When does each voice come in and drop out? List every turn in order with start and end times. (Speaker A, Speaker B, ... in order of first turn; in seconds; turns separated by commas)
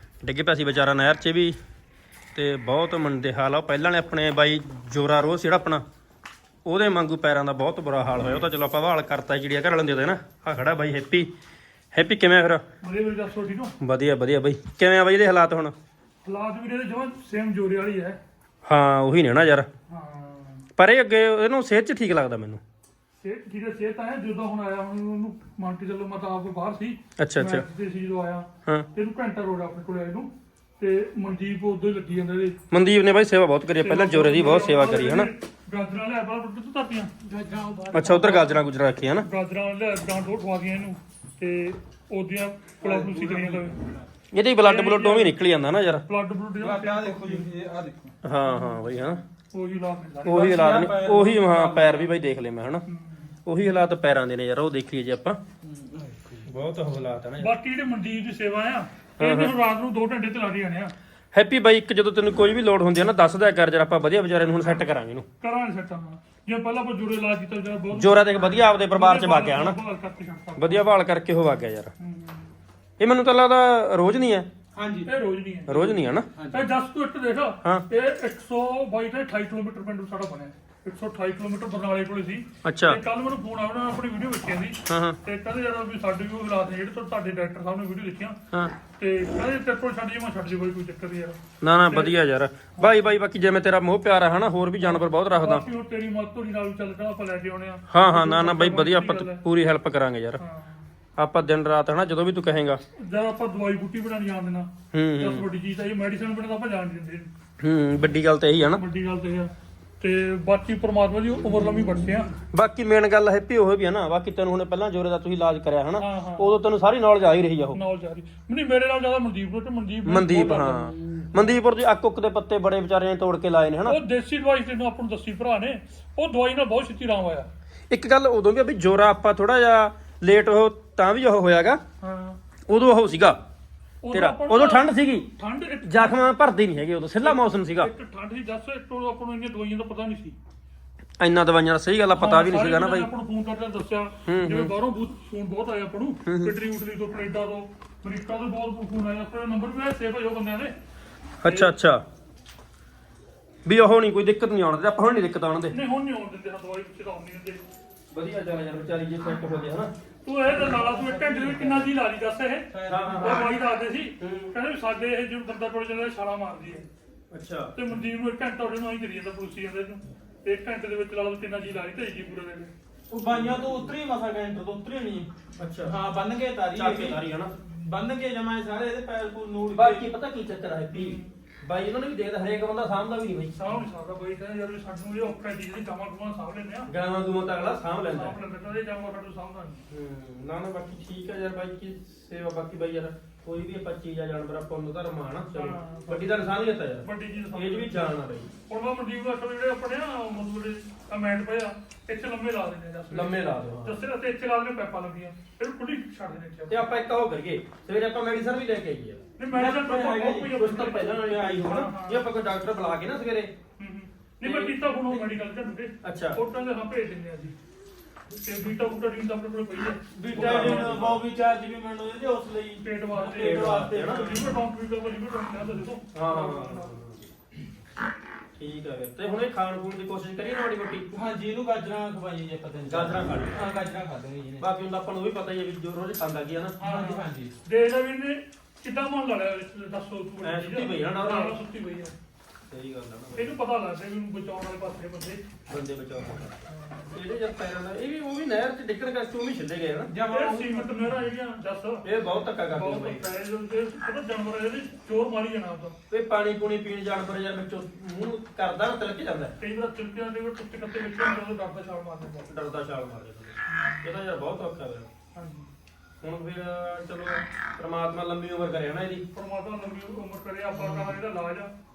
Speaker A: 0.2-1.6, Speaker A: 2.3-5.8, Speaker A: 6.7-11.3, Speaker A: 11.9-12.6, Speaker B: 12.8-13.7, Speaker A: 13.8-15.7, Speaker B: 16.2-18.2, Speaker A: 18.6-19.7, Speaker B: 19.9-20.6, Speaker A: 20.8-22.6, Speaker B: 23.2-32.5, Speaker A: 27.2-27.6, Speaker A: 32.7-35.3, Speaker B: 33.8-37.1, Speaker C: 37.2-38.5, Speaker A: 37.9-39.3, Speaker B: 39.2-43.8, Speaker C: 42.8-44.0, Speaker A: 44.3-46.0, Speaker B: 44.6-45.4, Speaker B: 46.1-47.5, Speaker C: 46.6-48.1, Speaker A: 48.2-49.2, Speaker B: 48.5-48.9, Speaker B: 49.5-50.5, Speaker A: 50.2-52.8, Speaker C: 50.2-52.1, Speaker B: 52.9-53.4, Speaker A: 53.5-55.4, Speaker C: 55.6-56.4, Speaker A: 56.4-57.5, Speaker B: 57.4-60.9, Speaker A: 59.2-59.5, Speaker A: 61.3-65.2, Speaker B: 65.4-68.3, Speaker A: 67.9-69.8, Speaker B: 68.8-70.9, Speaker A: 70.6-71.9, Speaker B: 72.0-72.5, Speaker A: 73.0-74.5, Speaker C: 74.7-75.1, Speaker B: 75.0-88.4, Speaker A: 75.7-76.3, Speaker C: 76.3-76.7, Speaker A: 82.6-83.0, Speaker A: 84.8-85.2, Speaker B: 89.0-92.1, Speaker A: 91.6-95.6, Speaker B: 94.8-99.4, Speaker A: 97.9-100.4, Speaker B: 100.4-100.9, Speaker A: 101.2-102.8, Speaker B: 103.0-107.3, Speaker A: 104.9-105.4, Speaker A: 107.6-108.8, Speaker B: 108.7-112.3, Speaker A: 112.5-117.8, Speaker B: 116.0-116.6, Speaker B: 117.7-120.9, Speaker A: 120.0-124.0, Speaker B: 123.8-127.5, Speaker A: 127.9-131.8, Speaker B: 132.0-132.4, Speaker A: 132.7-133.4, Speaker B: 134.0-136.2, Speaker A: 134.1-135.3, Speaker A: 135.8-137.9, Speaker B: 137.2-140.4, Speaker A: 141.2-143.1, Speaker B: 142.1-150.7, Speaker A: 144.2-144.7, Speaker A: 146.2-146.5, Speaker A: 151.4-152.0, Speaker B: 151.4-151.7, Speaker A: 153.6-155.8, Speaker B: 155.7-157.6, Speaker A: 158.1-159.9, Speaker B: 160.2-166.8, Speaker C: 160.5-161.9, Speaker C: 162.7-163.6, Speaker A: 162.9-163.5, Speaker A: 164.2-164.5, Speaker A: 167.3-167.7, Speaker B: 167.7-172.7, Speaker C: 173.1-175.3, Speaker A: 173.3-173.9, Speaker A: 175.6-175.9, Speaker C: 175.8-180.1, Speaker A: 176.7-177.6, Speaker A: 179.7-183.8, Speaker B: 180.9-181.3, Speaker B: 183.6-186.9, Speaker A: 186.9-188.4, Speaker B: 188.1-189.8, Speaker A: 189.9-198.5, Speaker B: 195.5-196.5, Speaker B: 197.0-198.2, Speaker B: 198.7-206.9, Speaker A: 203.1-204.0, Speaker A: 206.7-209.2, Speaker B: 209.4-212.3, Speaker C: 209.5-210.5, Speaker A: 210.5-213.5, Speaker C: 211.2-211.8, Speaker B: 213.8-217.6, Speaker A: 214.4-214.7, Speaker A: 216.0-216.4, Speaker B: 218.4-221.1, Speaker C: 220.1-224.5, Speaker A: 220.3-221.2, Speaker B: 222.8-226.9, Speaker A: 223.4-224.4, Speaker A: 226.1-227.2, Speaker A: 228.6-231.1, Speaker C: 231.1-234.7, Speaker A: 232.9-233.6, Speaker A: 234.6-236.8, Speaker B: 236.8-242.1, Speaker C: 236.8-237.5, Speaker A: 240.4-241.6, Speaker A: 242.7-243.6, Speaker B: 243.3-245.4, Speaker A: 245.7-250.1, Speaker B: 246.7-247.1, Speaker C: 250.1-251.0, Speaker B: 250.3-252.0, Speaker A: 252.0-253.2, Speaker B: 252.7-255.9, Speaker A: 256.1-259.5, Speaker B: 259.6-262.5, Speaker A: 262.5-265.1, Speaker B: 265.3-265.7, Speaker A: 266.2-269.2, Speaker B: 269.3-271.7